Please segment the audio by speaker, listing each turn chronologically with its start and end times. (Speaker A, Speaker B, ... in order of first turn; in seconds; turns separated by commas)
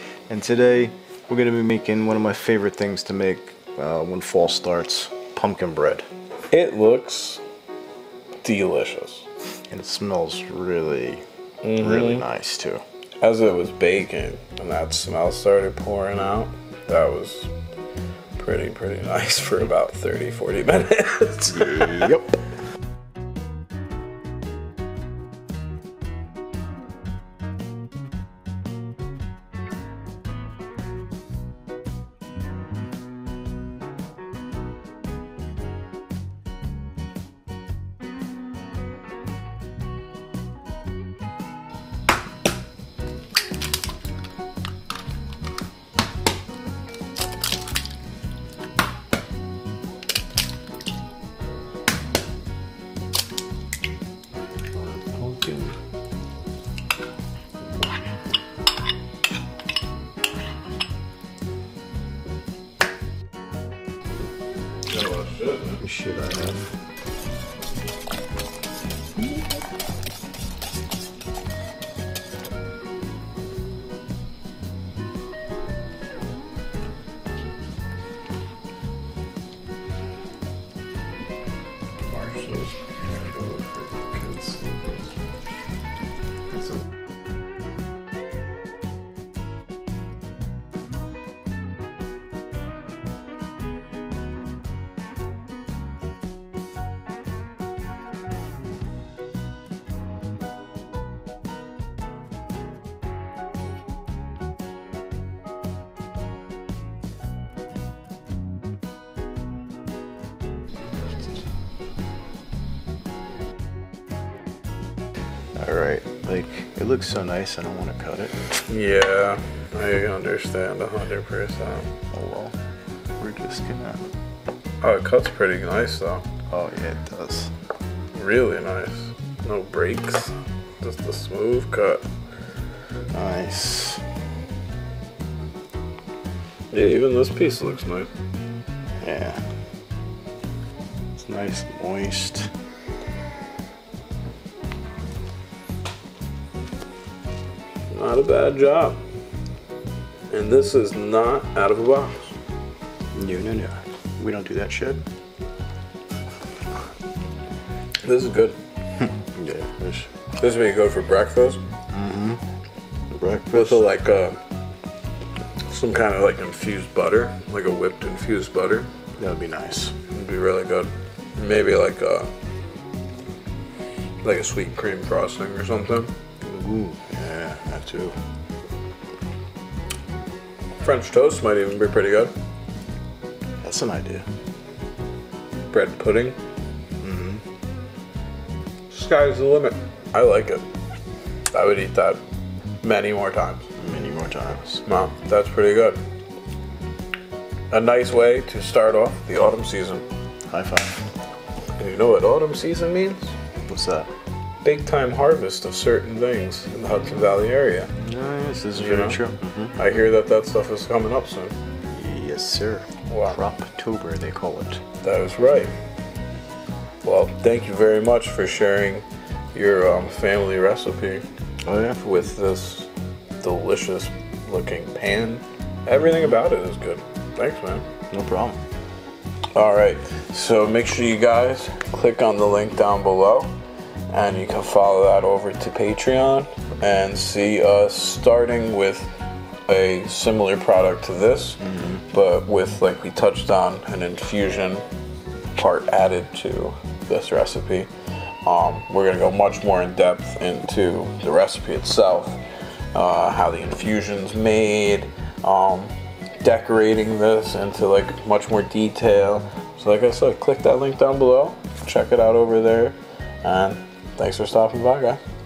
Speaker A: 0.3-6.1, Speaker B: 6.5-7.4, Speaker B: 8.4-9.3, Speaker A: 9.7-11.2, Speaker B: 11.6-12.2, Speaker A: 11.8-12.8, Speaker B: 13.2-17.5, Speaker B: 18.4-22.2, Speaker A: 21.9-22.4, Speaker A: 54.8-55.8, Speaker B: 64.9-65.8, Speaker A: 65.8-66.7, Speaker B: 82.0-85.2, Speaker A: 115.6-118.6, Speaker B: 118.7-121.9, Speaker A: 122.1-122.6, Speaker A: 123.2-124.0, Speaker B: 124.8-126.3, Speaker A: 126.5-127.5, Speaker B: 128.1-132.1, Speaker A: 133.1-134.0, Speaker B: 136.7-138.1, Speaker A: 139.0-139.4, Speaker A: 141.2-142.5, Speaker B: 147.9-149.0, Speaker B: 150.3-152.4, Speaker A: 153.1-155.0, Speaker B: 158.0-158.6, Speaker A: 159.0-160.1, Speaker B: 160.4-161.6, Speaker A: 161.9-162.4, Speaker A: 163.1-163.8, Speaker B: 163.5-164.4, Speaker B: 165.7-168.9, Speaker A: 169.2-169.9, Speaker B: 170.1-172.3, Speaker B: 174.2-176.1, Speaker A: 176.4-178.2, Speaker B: 180.8-182.3, Speaker A: 183.6-184.3, Speaker B: 185.7-186.4, Speaker A: 187.0-187.4, Speaker B: 188.9-190.7, Speaker B: 191.5-192.2, Speaker B: 192.8-193.7, Speaker A: 193.8-194.8, Speaker B: 194.8-196.0, Speaker B: 197.7-200.0, Speaker A: 200.5-201.1, Speaker B: 201.8-203.3, Speaker A: 203.7-204.1, Speaker B: 204.6-207.9, Speaker A: 208.0-209.8, Speaker B: 208.8-209.2, Speaker B: 209.8-211.6, Speaker A: 211.9-214.8, Speaker B: 213.1-213.4, Speaker B: 215.0-215.7, Speaker B: 217.0-221.3, Speaker A: 221.7-222.0, Speaker B: 222.0-227.9, Speaker A: 228.1-228.6, Speaker B: 229.5-233.5, Speaker B: 234.1-244.8, Speaker A: 241.6-242.0, Speaker B: 245.6-247.9, Speaker B: 248.4-265.2